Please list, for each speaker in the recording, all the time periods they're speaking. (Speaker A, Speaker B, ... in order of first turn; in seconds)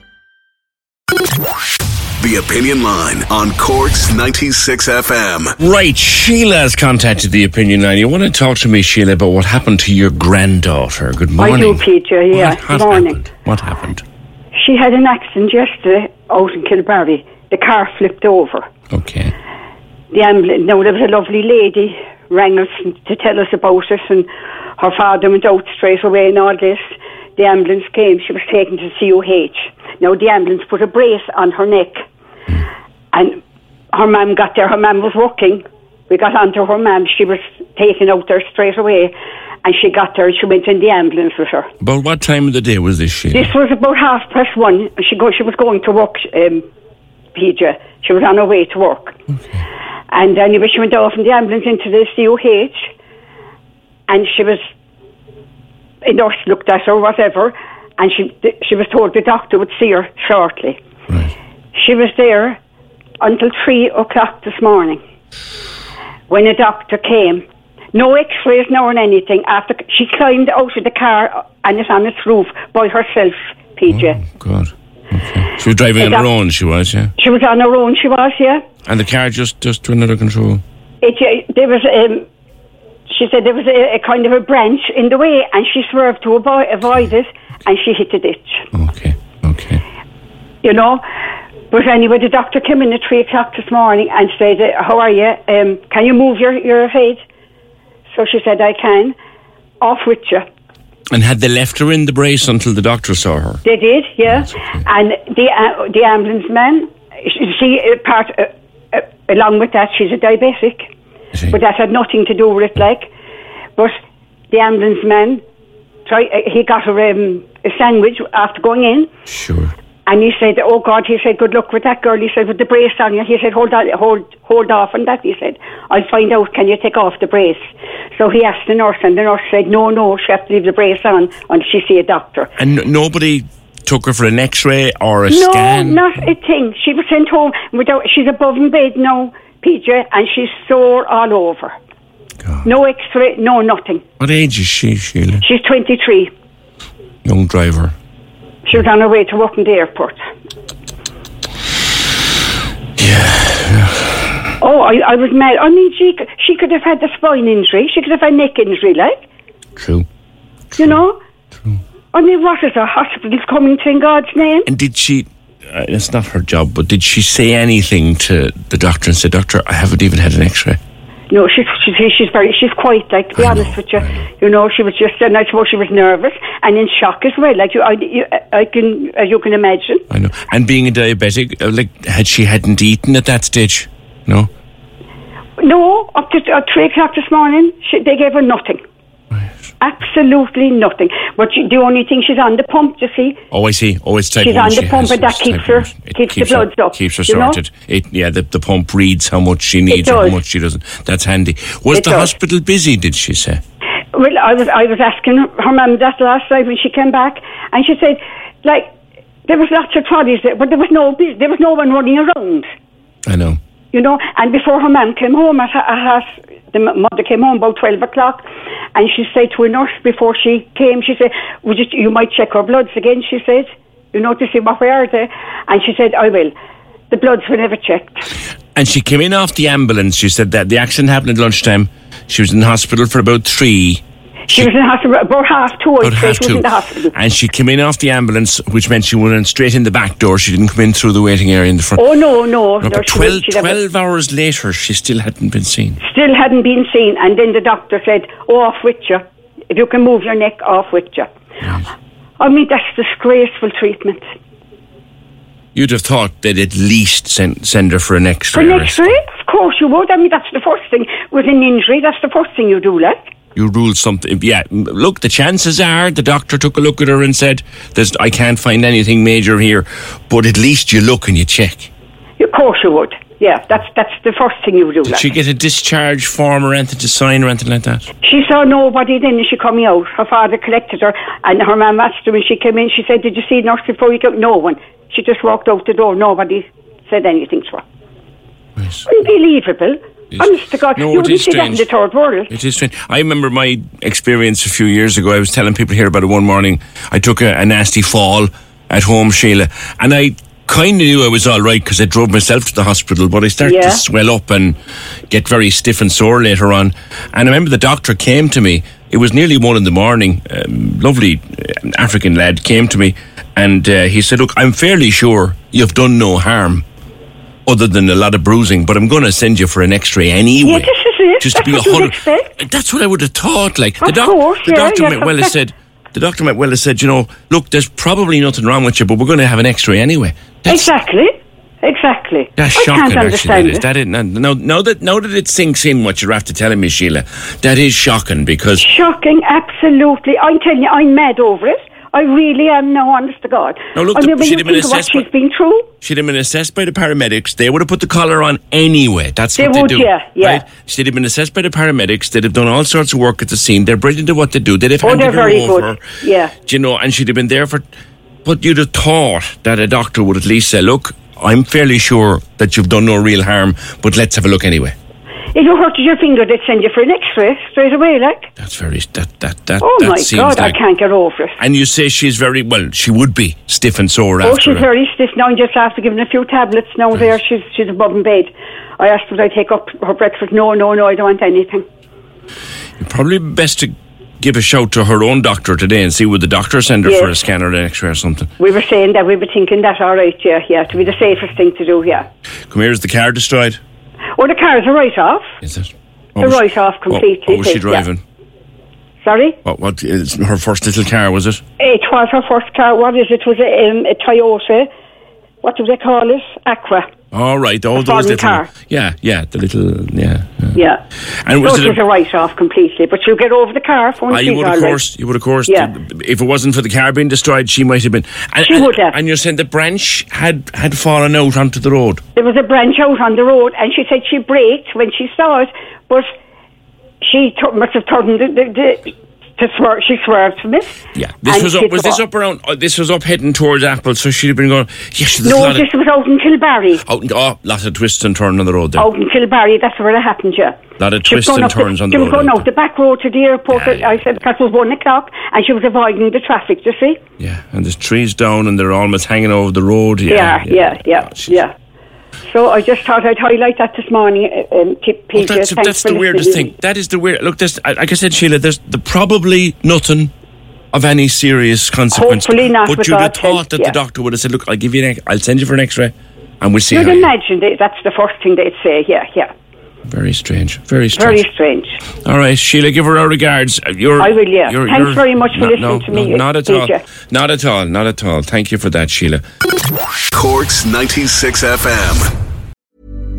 Speaker A: 2.2-5.5, 480.3-482.3
Speaker B: 5.6-14.0, 18.9-19.3, 41.8-43.5, 73.9-77.1, 78.8-80.6, 88.7-89.8, 101.1-103.6, 104.3-104.7, 119.3-119.7, 132.6-136.0, 142.4-142.7, 144.2-145.4, 147.2-147.9, 153.0-154.3, 159.8-160.1, 160.7-161.0, 164.7-170.8, 173.4-174.2, 180.1-184.5, 193.5-203.6, 213.2-213.6, 228.8-234.7, 236.0-242.0, 242.8-246.0, 251.6-251.9, 255.8-259.2, 263.6-271.9, 275.0-278.1, 288.8-289.1, 290.3-291.9, 292.5-304.8, 305.3-316.8, 317.7-320.9, 321.4-330.9, 332.6-338.9, 343.9-345.2, 346.0-356.0, 356.7-357.8, 358.4-364.9, 368.6-370.8, 371.6-374.9, 383.0-388.5, 392.7-393.8, 395.6-398.2, 399.6-401.6, 407.3-410.8, 411.4-412.0, 414.3-422.2, 431.1-435.9, 437.0-439.1, 441.0-442.6, 443.7-444.2, 447.4-451.5, 455.3-460.3, 460.9-467.3, 470.1-471.4, 472.2-479.4
Speaker C: 11.4-13.2, 14.6-18.7, 20.1-32.0, 33.1-33.4, 33.9-41.7, 43.3-46.6, 47.3-49.1, 50.1-52.9, 54.1-54.6, 56.0-60.8, 61.7-62.6, 63.2-65.0, 66.3-74.2, 76.0-76.3, 77.2-78.6, 81.0-82.3, 83.1-88.6, 90.6-91.0, 91.7-97.2, 98.1-99.2, 99.8-100.4, 103.7-110.9, 111.5-113.1, 114.5-115.4, 116.1-119.1, 120.1-132.5, 135.3-141.8, 142.6-144.0, 145.4-146.3, 148.7-150.2, 154.6-159.2, 160.8-161.2, 162.1-164.7, 171.3-180.0, 185.6-188.8, 189.8-193.4, 194.4-197.6, 199.9-200.4, 201.9-202.3, 204.1-208.9, 209.5-212.7, 213.9-226.5, 227.1-228.2, 234.5-237.1, 242.0-243.8, 246.0-251.3, 252.4-254.2, 258.5-263.2, 272.4-275.3, 278.2-287.8, 289.1-292.5, 303.6-304.0, 320.6-322.5, 324.0-325.6, 330.7-333.9, 338.8-345.9, 349.6-350.6, 355.0-356.5, 365.5-368.5, 369.8-371.6, 374.4-381.9, 387.1-387.3, 388.6-392.3, 394.4-395.4, 396.4-398.1, 399.2-399.6, 401.8-404.9, 405.6-407.1, 407.9-408.7, 410.8-411.0, 411.6-415.0, 415.7-415.9, 418.6-419.2, 422.4-426.3, 427.2-430.9, 431.4-432.2, 435.4-437.0, 439.0-447.2, 450.3-451.7, 452.5-456.7, 462.1-464.0, 466.9-469.5, 471.1-472.0, 474.2-477.0